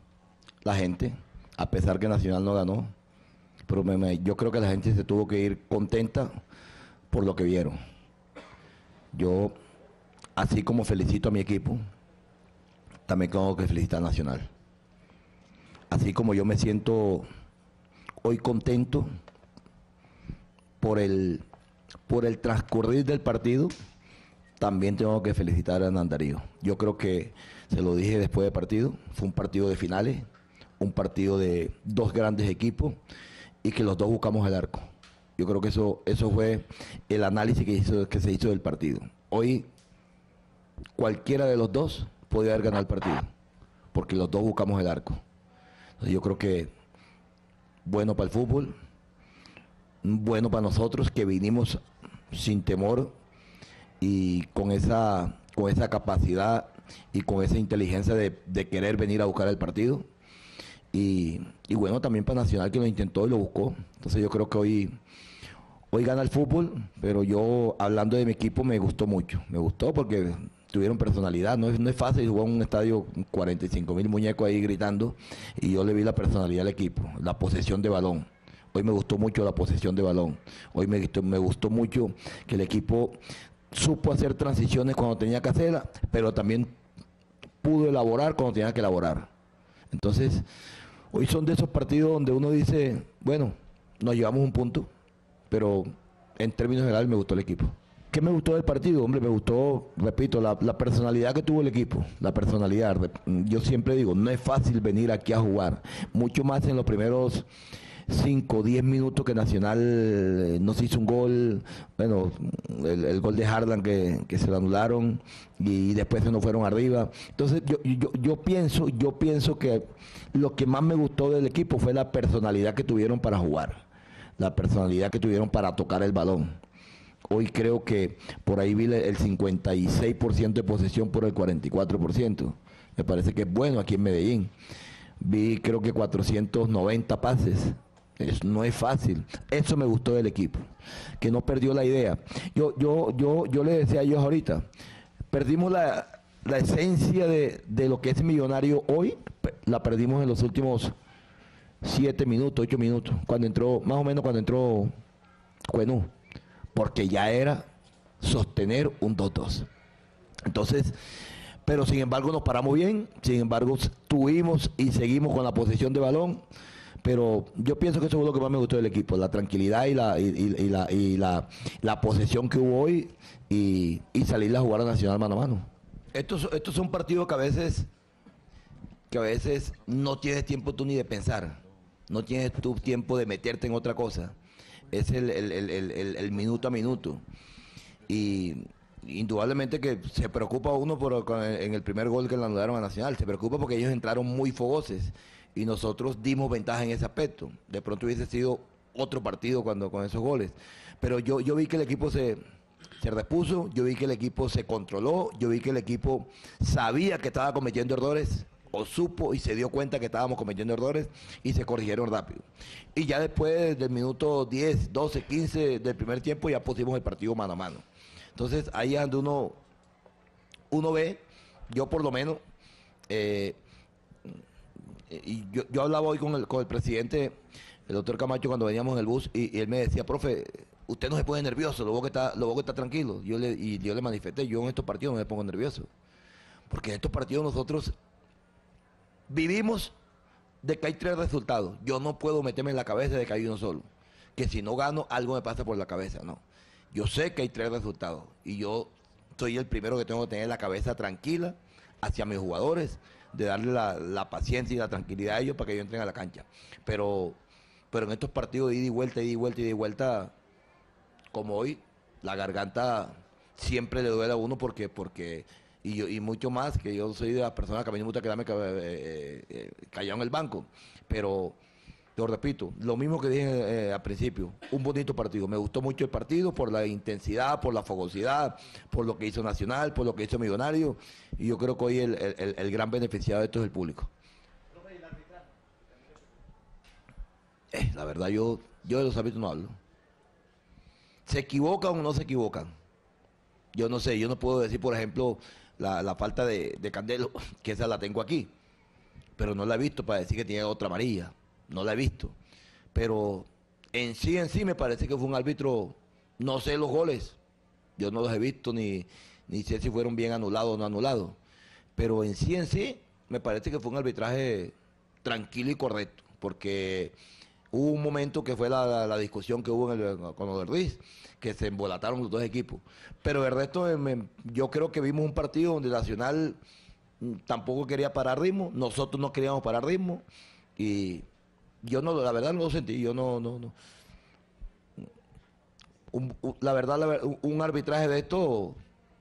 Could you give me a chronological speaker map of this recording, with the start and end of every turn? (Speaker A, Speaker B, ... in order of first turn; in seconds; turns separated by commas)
Speaker A: 0.6-2.9, Speaker A: 3.7-6.3, Speaker A: 7.1-7.8, Speaker A: 9.1-9.5, Speaker A: 10.4-11.8, Speaker A: 13.1-14.5, Speaker A: 15.9-17.3, Speaker A: 18.2-19.1, Speaker A: 20.8-21.4, Speaker A: 22.1-23.7, Speaker A: 24.6-30.2, Speaker A: 30.8-33.0, Speaker A: 33.6-34.9, Speaker A: 35.4-39.7, Speaker A: 41.0-43.3, Speaker A: 43.9-45.2, Speaker A: 46.0-46.7, Speaker A: 47.9-48.7, Speaker A: 50.0-53.1, Speaker A: 54.0-60.1, Speaker A: 60.9-65.0, Speaker A: 65.9-83.2, Speaker A: 83.7-86.7, Speaker A: 87.6-89.3, Speaker A: 89.9-90.5, Speaker A: 91.1-94.9, Speaker A: 95.5-107.5, Speaker A: 108.1-123.8, Speaker A: 124.4-126.6, Speaker A: 127.3-134.5, Speaker A: 135.2-140.7, Speaker A: 141.2-144.7, Speaker A: 145.3-150.9, Speaker A: 151.8-154.9, Speaker A: 155.7-156.1, Speaker A: 156.7-157.7, Speaker A: 158.2-159.7, Speaker A: 160.5-161.0, Speaker A: 161.7-166.4, Speaker A: 167.0-177.9, Speaker A: 179.1-184.3, Speaker A: 184.9-187.2, Speaker A: 188.1-202.4, Speaker A: 203.0-212.4, Speaker A: 212.9-217.8, Speaker A: 218.3-219.6, Speaker A: 220.7-222.4, Speaker A: 223.1-223.6, Speaker A: 225.1-227.3, Speaker A: 227.9-235.9, Speaker A: 236.7-237.9, Speaker A: 239.3-239.9, Speaker A: 240.6-257.4, Speaker A: 257.9-260.3, Speaker A: 261.3-271.6, Speaker A: 272.2-284.1, Speaker A: 287.7-289.8, Speaker A: 291.3-292.7, Speaker A: 293.7-298.5, Speaker A: 299.4-302.4, Speaker A: 302.9-307.4, Speaker A: 308.0-311.4, Speaker A: 312.0-317.1, Speaker A: 317.7-326.6, Speaker A: 327.2-330.2, Speaker A: 330.8-331.3, Speaker A: 331.8-333.8, Speaker A: 336.1-338.8